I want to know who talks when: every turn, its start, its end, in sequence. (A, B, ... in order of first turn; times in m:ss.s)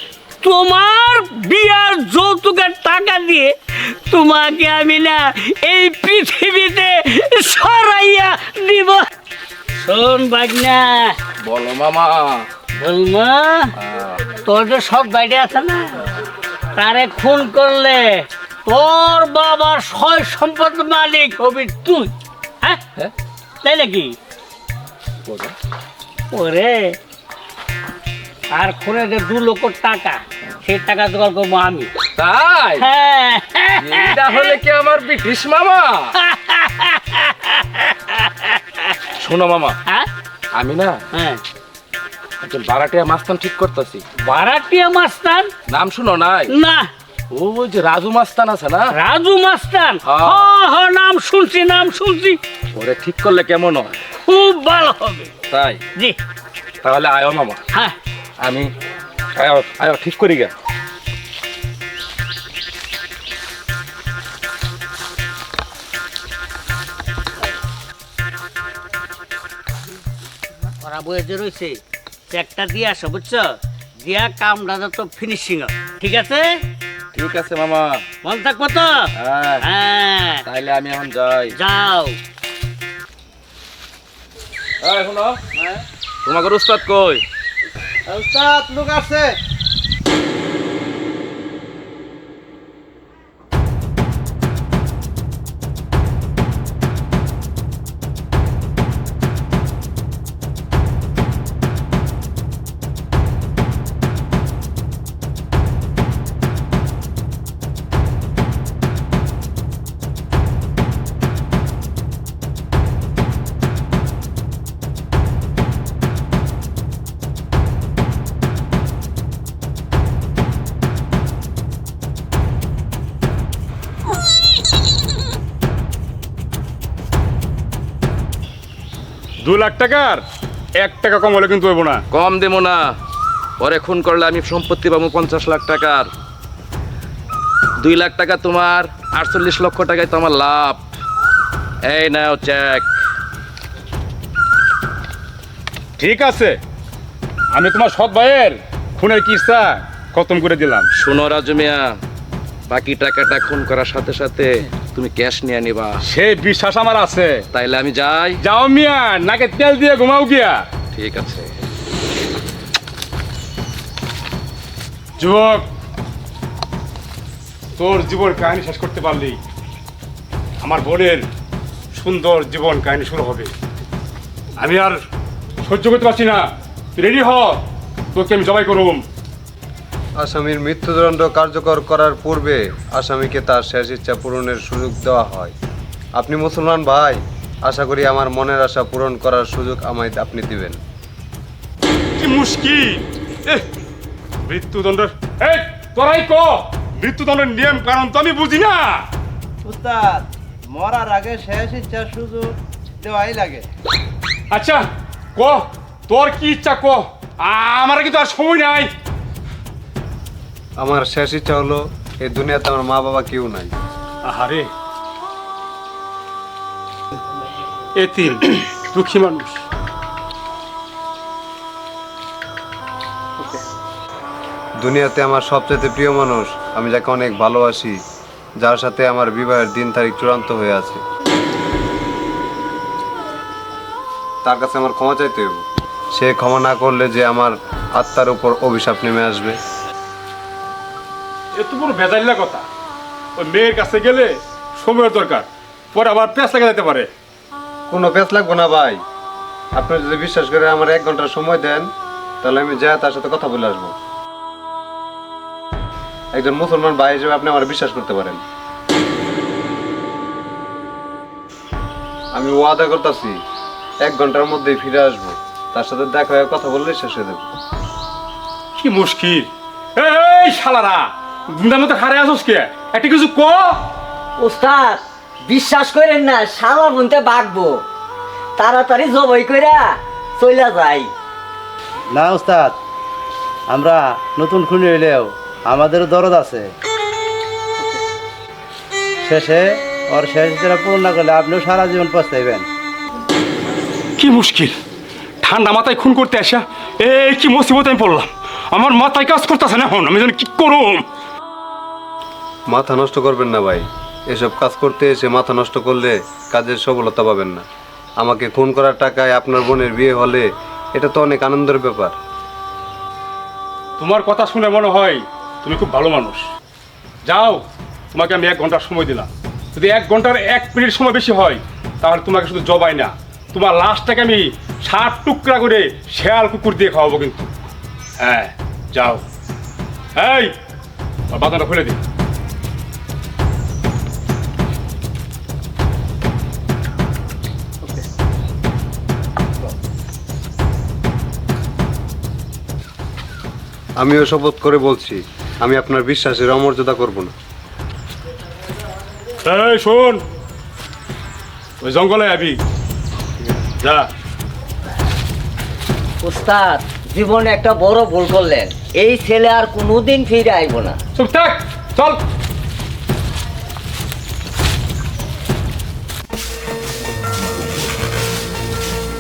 0:00.4-0:03.5 A
0:04.1-0:09.1 A
0:09.8-0:11.2 A
0:11.4-0:12.5 B
0:12.8-0:13.7 A
0:13.8-0:14.2 B
0:14.4-0:16.0 A
0:16.8-0:22.1 A
0:23.6-0:24.1 A
0:25.3-0:25.5 B
0:26.3-0:27.0 A
0:28.6-0:31.9 A
0:32.2-0:32.9 B
0:32.8-0:34.6 A
0:33.8-0:36.1 B
0:36.2-0:38.6 A
0:39.2-0:39.8 B
0:40.6-0:41.0 B
0:41.1-0:41.4 A
0:42.4-0:44.0 B
0:44.3-0:45.5 A
0:45.7-0:46.5 B
0:46.5-0:46.9 A
0:47.3-0:48.9 B
0:48.9-0:52.4 A
0:50.0-0:50.6 B
0:52.8-0:54.0 B
0:54.3-0:55.4 A
0:55.5-0:55.8 B
0:56.8-0:57.6 B
0:58.4-0:58.7 B
0:59.4-1:00.5 B
1:10.8-1:11.8 A
1:12.3-1:16.6 A
1:17.1-1:18.0 B
1:18.2-1:19.1 A
1:19.2-1:19.6 B
1:19.6-1:20.4 A
1:20.5-1:21.6 B
1:21.6-1:22.2 A
1:24.8-1:25.4 B
1:25.6-1:25.8 C
1:26.2-1:27.2 B
1:28.1-1:29.3 C
2:09.4-2:10.2 D
2:10.8-2:12.0 D
2:12.1-2:12.9 B
2:13.6-2:16.1 B
2:17.8-2:20.8 B
2:21.8-2:22.9 B
2:26.0-2:26.6 D
2:27.5-2:30.9 D
2:31.0-2:32.0 B
2:32.7-2:36.0 B
2:36.0-2:37.4 D
2:37.5-2:38.4 B
2:38.4-2:40.7 D
2:40.9-2:41.5 B
2:45.2-2:45.7 D
2:47.8-2:49.4 D
2:50.6-2:51.2 D
2:51.9-2:53.5 D
2:54.6-2:55.0 D
2:55.6-2:56.4 D
2:57.0-2:57.6 D
2:58.1-2:59.0 D
3:00.2-3:05.6 E
3:06.2-3:10.8 E
3:12.2-3:13.6 D
3:14.4-3:19.1 D
3:19.7-3:23.6 C
3:24.5-3:24.8 D
3:25.4-3:28.9 D
3:30.8-3:33.7 E
3:34.2-3:34.7 D
3:38.0-3:39.6 D
3:44.8-3:48.0 E
3:48.6-3:51.0 E
3:54.4-3:59.6 E
4:01.5-4:02.6 D
4:03.4-4:07.1 D
4:07.9-4:09.0 E
4:09.7-4:11.9 E
4:12.4-4:14.0 E
4:16.3-4:18.4 E
4:22.3-4:23.4 E
4:24.0-4:27.5 E
4:28.8-4:33.8 D
4:34.4-4:37.8 F
4:38.6-4:41.1 F
4:42.1-4:42.8 C
4:43.7-4:46.6 C
4:49.2-4:52.7 C
4:54.2-4:54.8 D
4:55.4-5:01.0 D
5:02.7-5:07.7 E
5:08.2-5:12.2 E
5:14.0-5:16.5 D
5:17.3-5:17.6 D
5:18.1-5:27.5 D
5:28.2-5:29.2 D
5:30.2-5:30.5 D
5:31.3-5:32.0 D
5:44.0-5:47.3 E
5:49.4-5:50.2 D
5:51.8-5:52.6 D
5:53.8-5:54.1 D
5:56.2-6:01.0 F
6:01.2-6:02.2 D